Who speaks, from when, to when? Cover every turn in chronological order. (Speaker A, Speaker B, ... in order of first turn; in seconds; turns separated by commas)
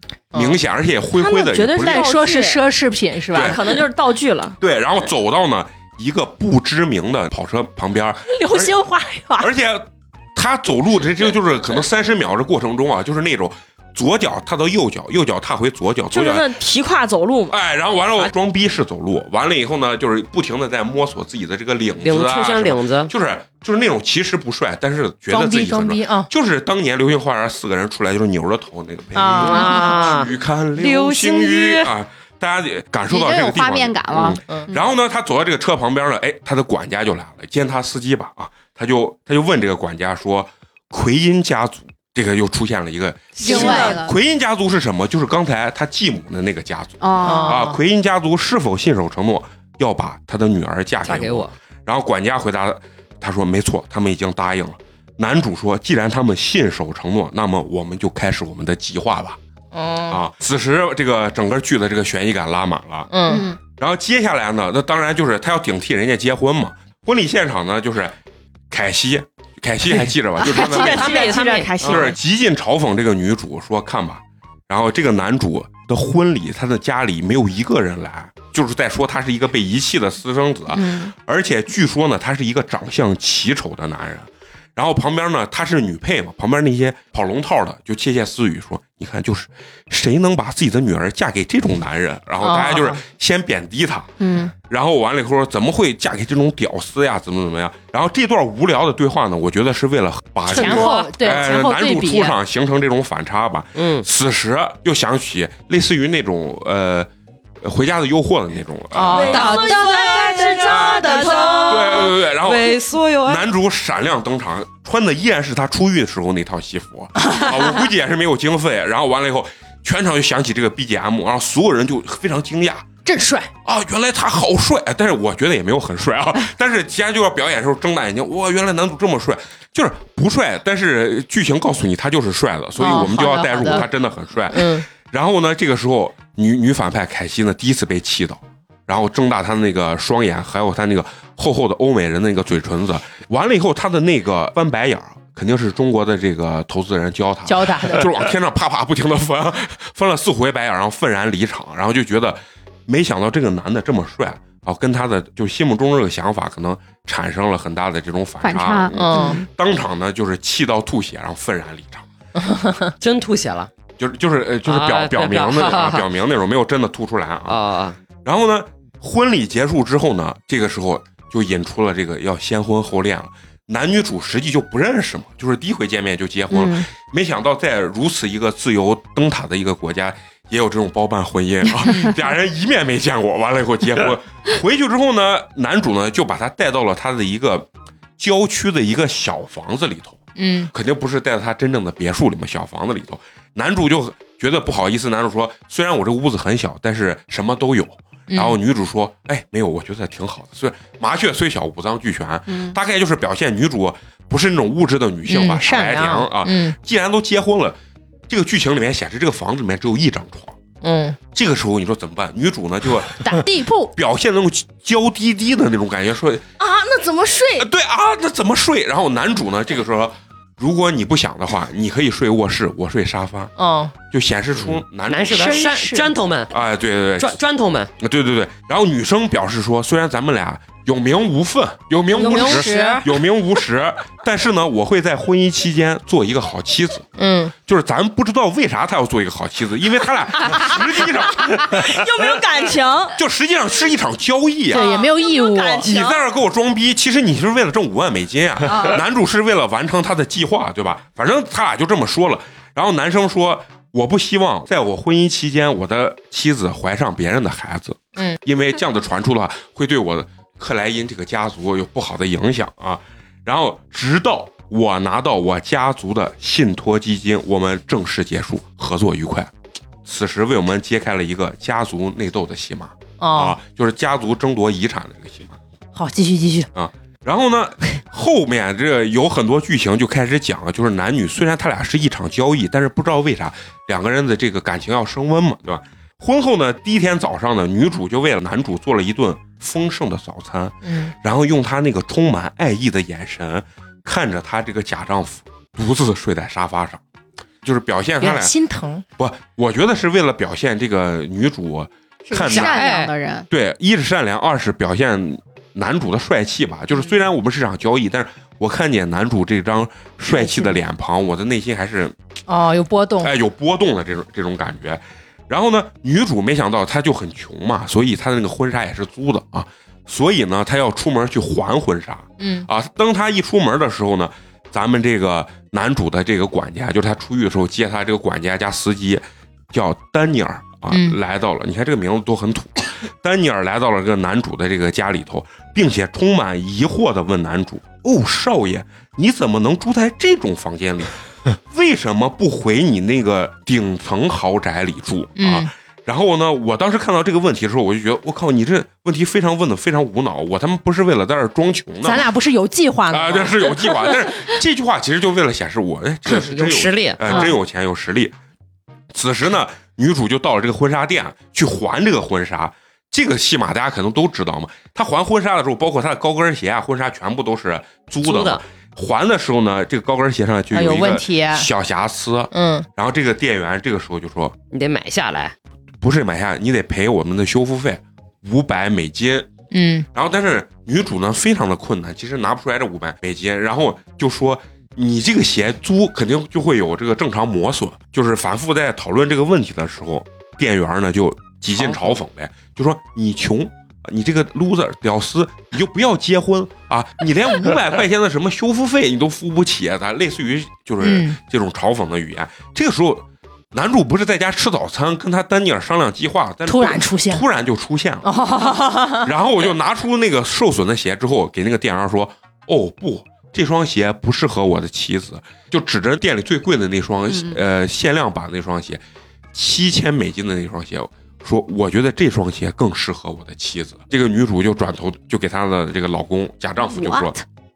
Speaker A: 0.3-0.6, Speaker B: 0.3-2.1, Speaker C: 1.1-2.6, Speaker A: 1.8-3.6, Speaker B: 3.3-3.8, Speaker C: 3.3-4.6, Speaker B: 4.6-8.8, Speaker A: 8.3-9.5, Speaker B: 9.4-16.5, Speaker C: 16.1-17.6, Speaker B: 17.5-59.4, Speaker D: 22.0-23.1, Speaker A: 25.3-26.3, Speaker A: 29.1-30.2, Speaker D: 29.3-30.3, Speaker A: 30.8-31.6, Speaker D: 30.9-31.9, Speaker E: 33.1-34.7, Speaker E: 43.4-44.1, Speaker A: 43.5-43.9, Speaker D: 43.5-44.0, Speaker E: 47.0-47.7, Speaker A: 47.2-47.8, Speaker D: 51.0-51.5, Speaker A: 59.7-60.2, Speaker B: 60.1-63.1, Speaker A: 63.1-63.5, Speaker E: 63.2-63.6, Speaker B: 63.7-68.2, Speaker B: 68.7-71.3, Speaker C: 70.4-72.2, Speaker D: 70.5-72.2, Speaker B: 71.8-107.1, Speaker E: 80.8-81.1, Speaker A: 92.4-93.0, Speaker E: 94.2-94.5, Speaker A: 100.4-102.4, Speaker D: 100.6-101.1, Speaker D: 103.7-104.0, Speaker B: 107.6-109.5, Speaker A: 108.9-111.7, Speaker C: 109.1-112.1, Speaker D: 109.1-113.5, Speaker B: 111.7-122.9, Speaker A: 117.2-117.5, Speaker A: 123.0-123.5, Speaker B: 123.6-162.1, Speaker A: 132.8-133.9, Speaker A: 134.5-134.8, Speaker A: 147.4-148.1, Speaker E: 158.4-159.4, Speaker A: 158.9-159.4, Speaker A: 162.4-162.9, Speaker D: 163.0-163.7, Speaker B: 164.0-167.6, Speaker D: 164.6-166.1, Speaker D: 167.5-168.0, Speaker B: 168.2-207.8, Speaker E: 176.5-176.8, Speaker A: 190.3-190.7, Speaker A: 198.3-198.6, Speaker E: 202.5-202.8, Speaker A: 205.3-206.8, Speaker B: 208.3-210.6, Speaker A: 210.8-211.2, Speaker B: 211.3-213.4, Speaker A: 213.2-213.9, Speaker B: 213.9-216.4, Speaker C: 216.6-217.7, Speaker B: 217.6-223.5, Speaker A: 223.6-223.9, Speaker B: 224.1-225.6, Speaker D: 225.1-226.5, Speaker C: 225.6-226.0, Speaker B: 226.5-227.4, Speaker D: 227.2-227.9, Speaker B: 228.0-242.0, Speaker A: 232.1-233.1, Speaker C: 232.2-232.9, Speaker A: 237.2-237.5, Speaker C: 241.6-243.2, Speaker B: 243.2-244.9, Speaker A: 244.7-245.9, Speaker C: 244.7-246.2, Speaker B: 245.8-269.5, Speaker B: 270.0-275.6, Speaker A: 273.2-273.6, Speaker A: 275.9-276.7, Speaker B: 276.7-297.0, Speaker A: 290.8-291.1, Speaker B: 297.6-298.5, Speaker A: 298.2-299.0, Speaker B: 299.2-302.8, Speaker E: 302.2-303.5, Speaker A: 302.5-303.1, Speaker B: 303.5-312.1, Speaker A: 310.3-310.7, Speaker A: 312.5-313.3, Speaker B: 313.2-352.3, Speaker A: 322.4-322.7, Speaker A: 330.9-331.2, Speaker A: 345.4-345.7, Speaker A: 352.0-354.5, Speaker B: 353.1-358.3, Speaker D: 356.2-357.5, Speaker A: 357.2-357.5, Speaker B: 359.1-374.6, Speaker D: 368.2-368.6, Speaker A: 370.7-371.7, Speaker A: 372.5-372.9, Speaker D: 374.7-375.5, Speaker B: 376.0-379.5, Speaker A: 379.7-380.1, Speaker B: 380.1-408.3, Speaker A: 401.0-401.4, Speaker A: 406.6-407.4, Speaker A: 408.2-409.3, Speaker B: 409.1-419.0, Speaker E: 417.3-417.6, Speaker B: 419.5-427.4, Speaker E: 426.8-427.3